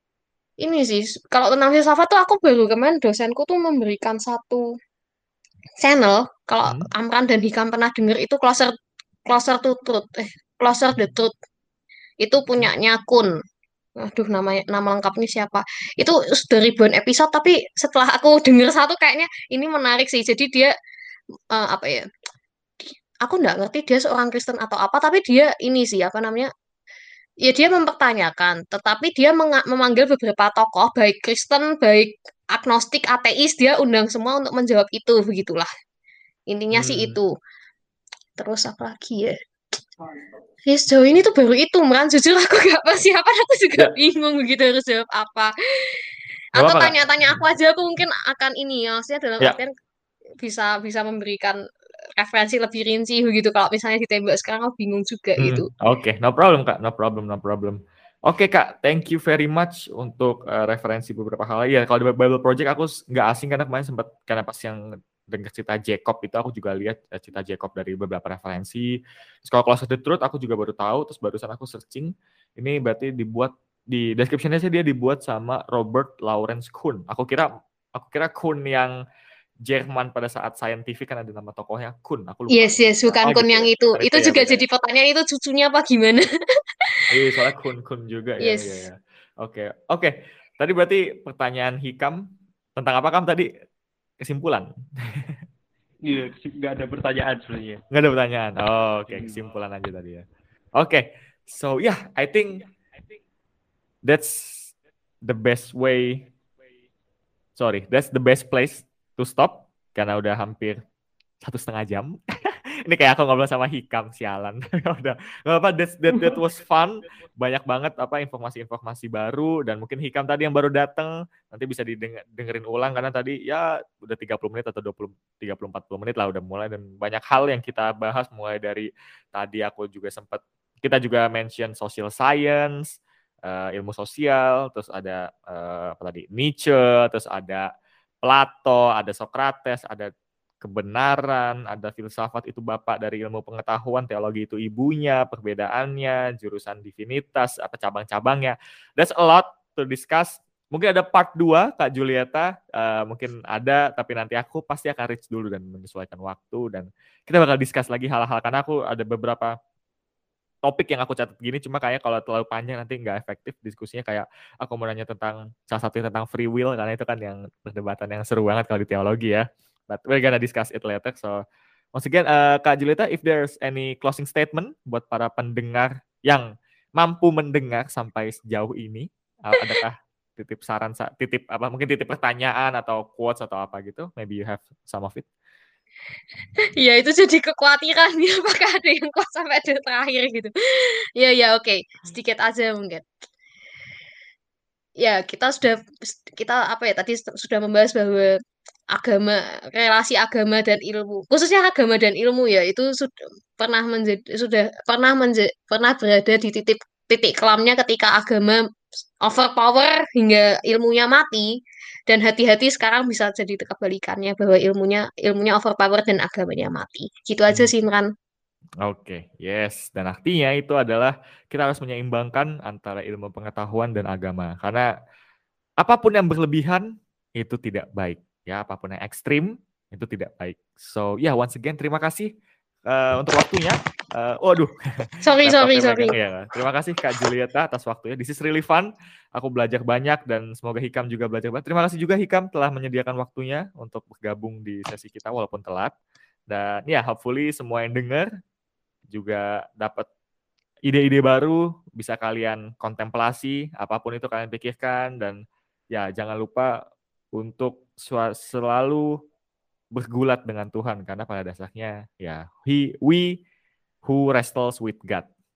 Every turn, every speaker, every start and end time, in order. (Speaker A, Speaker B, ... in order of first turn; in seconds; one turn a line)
Speaker A: 0.6-4.7
Speaker A: 5.8-8.8
Speaker A: 9.3-11.3
Speaker A: 12.2-13.3
Speaker A: 14.0-20.7
Speaker A: 21.5-22.1
Speaker A: 23.2-26.5
Speaker A: 27.4-35.7
Speaker A: 36.5-37.3
Speaker B: 36.7-37.2
Speaker A: 38.4-39.4
Speaker A: 40.6-46.0
Speaker B: 46.6-47.4
Speaker A: 46.6-49.7
Speaker A: 50.4-51.6
Speaker A: 52.2-55.7
Speaker B: 55.4-79.0
Speaker B: 79.7-84.6
Speaker A: 82.5-86.2
Speaker B: 87.1-92.2
Speaker A: 88.4-88.8
Speaker B: 92.8-93.5
Speaker B: 94.2-95.4
Speaker C: 96.0-97.8
Speaker B: 97.9-100.2
Speaker C: 99.1-99.4
Speaker B: 100.8-102.7
Speaker B: 104.0-106.3
Speaker B: 107.6-110.8
Speaker B: 111.4-137.7
Speaker B: 138.2-159.5
Speaker B: 160.6-171.4
Speaker B: 171.9-185.3
Speaker A: 186.8-193.1
Speaker A: 195.0-198.4
Speaker A: 198.9-208.6
Speaker A: 209.2-211.5
Speaker A: 212.1-218.1
Speaker B: 218.8-224.8
Speaker B: 225.8-232.3
Speaker B: 232.9-245.9
Speaker A: 235.2-236.1
Speaker B: 246.5-248.3
Speaker B: 249.1-250.1
Speaker B: 250.9-255.4
Speaker B: 255.9-256.8
Speaker B: 257.3-259.1
Speaker B: 259.9-263.4
Speaker B: 264.0-265.3